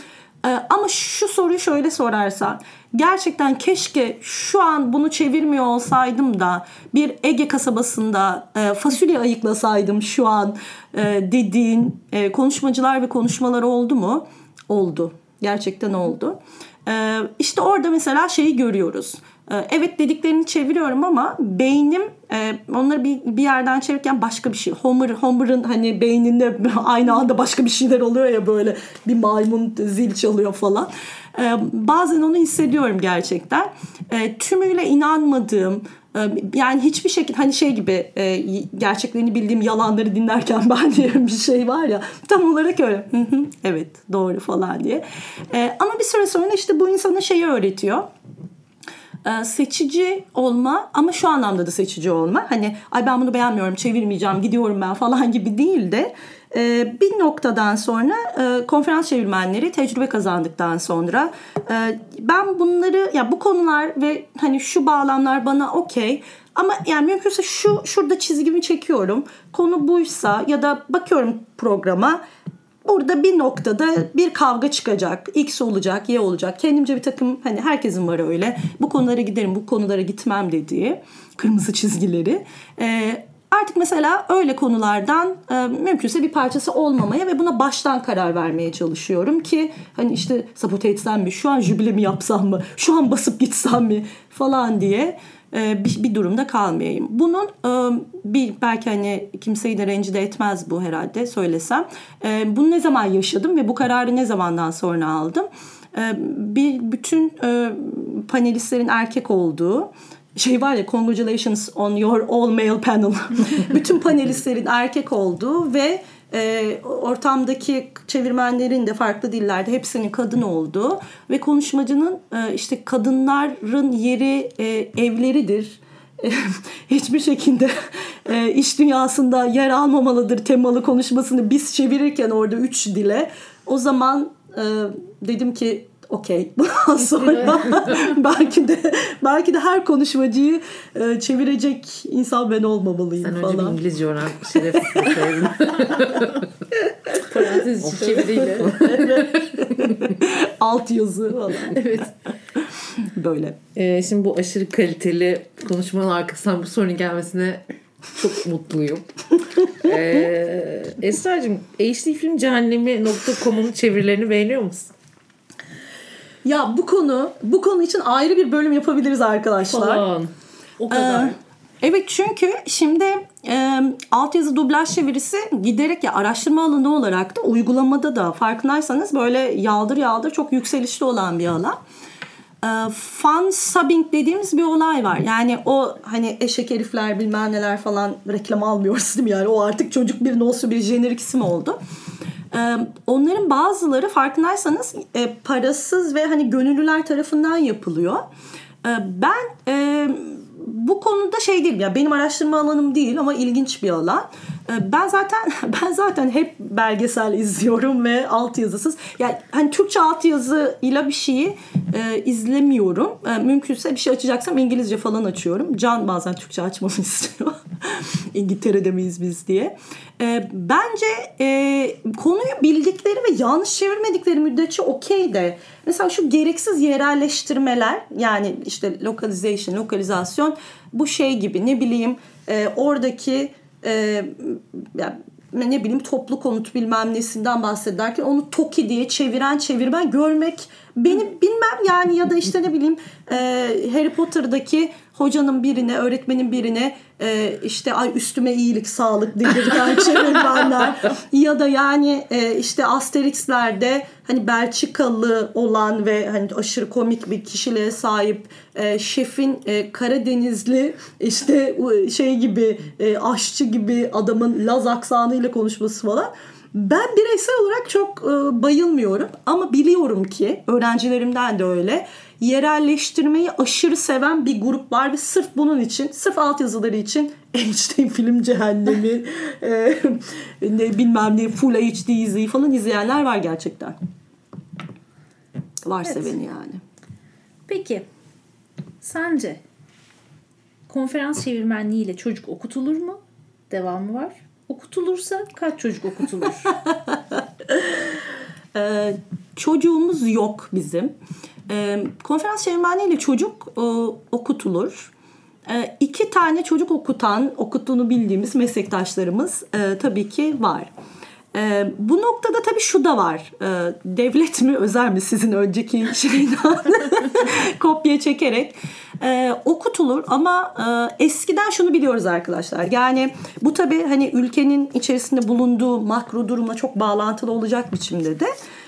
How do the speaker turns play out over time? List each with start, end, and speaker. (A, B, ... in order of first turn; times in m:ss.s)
0:00.4-0:48.1 A
0:49.2-1:12.2 A
1:12.8-2:23.8 A
2:23.2-2:26.5 B
2:27.2-2:29.1 C
2:27.8-2:29.9 B
2:28.8-2:31.8 A
2:31.7-2:32.1 C
2:33.0-2:33.6 A
2:33.7-2:37.6 B
2:38.1-2:39.1 B
2:39.8-2:44.9 B
2:46.4-2:50.0 A
2:49.7-2:51.3 B
2:50.9-3:01.8 A
3:02.6-3:11.8 A
3:12.5-3:18.2 A
3:18.8-4:43.9 A
4:45.8-4:46.8 A
4:47.7-4:48.0 C
4:49.0-4:49.6 C
4:50.9-4:53.2 C
4:53.7-4:56.7 C
4:58.7-5:01.1 A
5:01.7-5:05.1 A
5:05.7-5:10.9 A
5:11.5-5:28.5 A